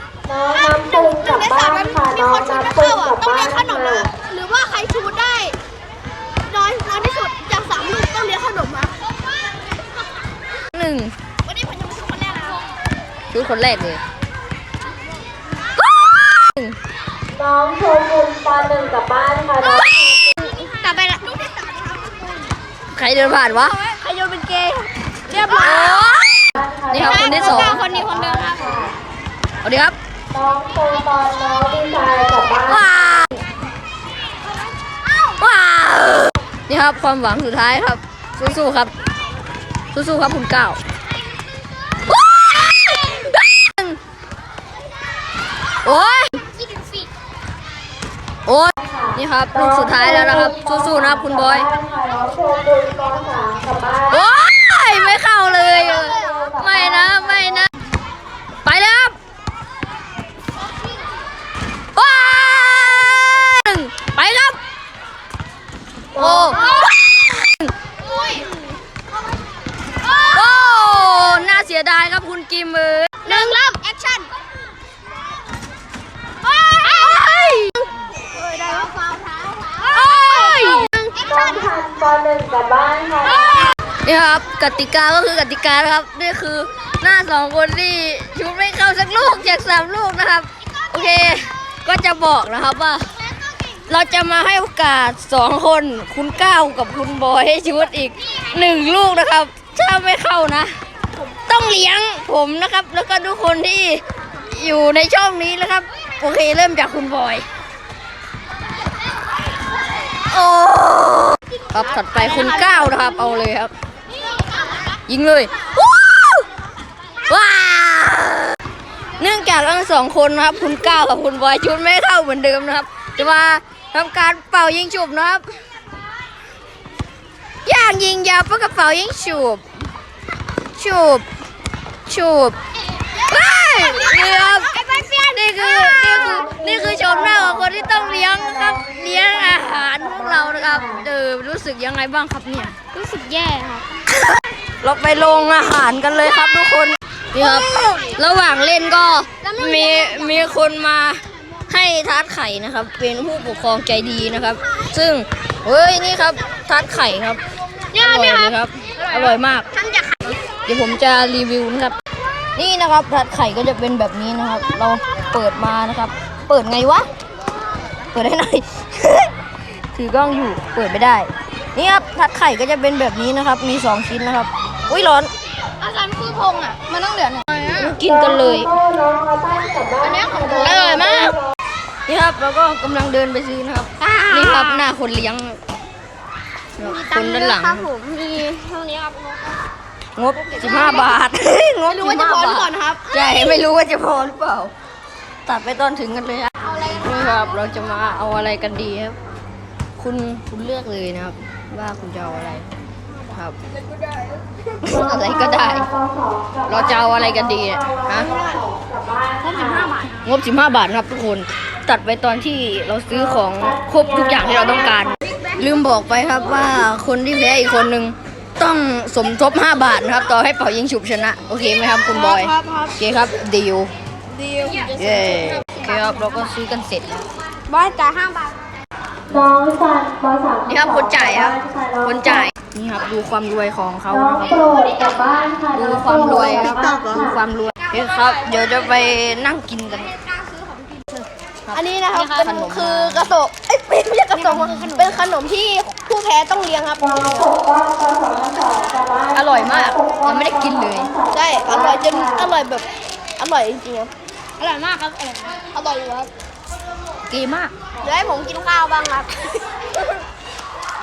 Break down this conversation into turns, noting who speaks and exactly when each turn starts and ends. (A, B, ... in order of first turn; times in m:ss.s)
0:00.3-0:04.1 A
0:00.8-0:05.6 B
0:06.5-0:09.0 B
0:10.7-0:11.1 C
0:11.4-0:12.7 B
0:13.3-0:14.0 C
0:15.8-0:16.8 C
0:17.3-0:20.3 A
0:20.3-0:22.5 B
0:22.9-0:23.8 C
0:23.8-0:26.3 B
0:25.5-0:27.8 C
0:26.5-0:29.0 A
0:27.0-0:28.9 B
0:29.6-0:30.0 C
0:30.3-0:32.9 A
0:32.6-0:33.4 C
0:35.2-0:38.9 C
0:39.9-0:40.8 C
0:42.1-0:44.0 C
0:45.8-0:46.4 C
0:48.4-0:51.7 C
0:48.7-0:54.2 A
0:54.1-0:57.7 C
0:55.9-0:57.7 A
0:58.6-0:59.2 C
1:01.9-1:04.6 C
1:06.1-1:06.6 A
1:06.2-1:07.7 C
1:06.5-1:06.9 B
1:08.0-1:08.5 B
1:10.0-1:11.2 B
1:10.3-1:13.5 C
1:13.2-1:14.3 B
1:16.4-1:17.2 B
1:16.8-1:17.7 C
1:18.4-1:21.7 B
1:19.8-1:20.9 C
1:21.2-1:23.7 A
1:24.0-1:33.1 C
1:33.9-1:47.4 C
1:50.2-1:53.7 C
1:52.1-1:53.2 B
1:55.1-1:56.5 C
1:57.2-1:58.6 C
1:59.2-2:05.4 C
2:07.6-2:09.6 C
2:10.8-2:11.2 C
2:12.1-2:12.6 C
2:13.2-2:22.8 C
2:14.0-2:15.2 B
2:16.1-2:21.0 A
2:22.9-2:23.9 B
2:24.0-2:37.4 C
2:27.4-2:28.2 B
2:29.4-2:30.5 B
2:37.9-2:40.4 B
2:37.9-2:39.7 C
2:40.7-2:42.0 C
2:42.6-2:47.1 C
2:48.1-2:49.3 C
2:49.9-2:55.3 C
2:55.8-2:57.9 B
2:57.7-2:58.7 C
2:58.0-3:01.5 A
3:00.0-3:01.3 B
3:00.5-3:01.4 C
3:02.1-3:05.6 C
3:04.0-3:04.9 B
3:06.8-3:07.9 C
3:06.8-3:09.6 B
3:10.2-3:14.7 C
3:10.3-3:11.2 B
3:11.9-3:13.6 B
3:15.4-3:19.2 C
3:16.6-3:17.5 B
3:20.0-3:22.7 C
3:23.3-3:23.6 C
3:24.8-3:25.8 C
3:24.8-3:29.9 A
3:26.7-3:28.3 C
3:28.3-3:28.6 B
3:29.4-3:30.1 B
3:30.2-3:43.9 C
3:33.1-3:35.2 A
3:42.1-3:43.0 B
3:44.3-3:45.8 B
3:44.9-3:47.3 C
3:47.7-3:48.5 B
3:49.3-3:52.5 A
3:50.7-3:54.7 C
3:54.1-3:57.4 A
3:55.7-4:00.2 C
3:56.6-3:57.1 B
4:01.6-4:03.3 C
4:01.7-4:07.5 B
4:03.9-4:05.2 C
4:07.0-4:12.5 A
4:09.3-4:11.1 C
4:11.3-4:12.8 B
4:13.4-4:14.1 B
4:14.6-4:15.3 C
4:15.2-4:16.3 B
4:17.3-4:17.7 C
4:18.0-4:19.9 B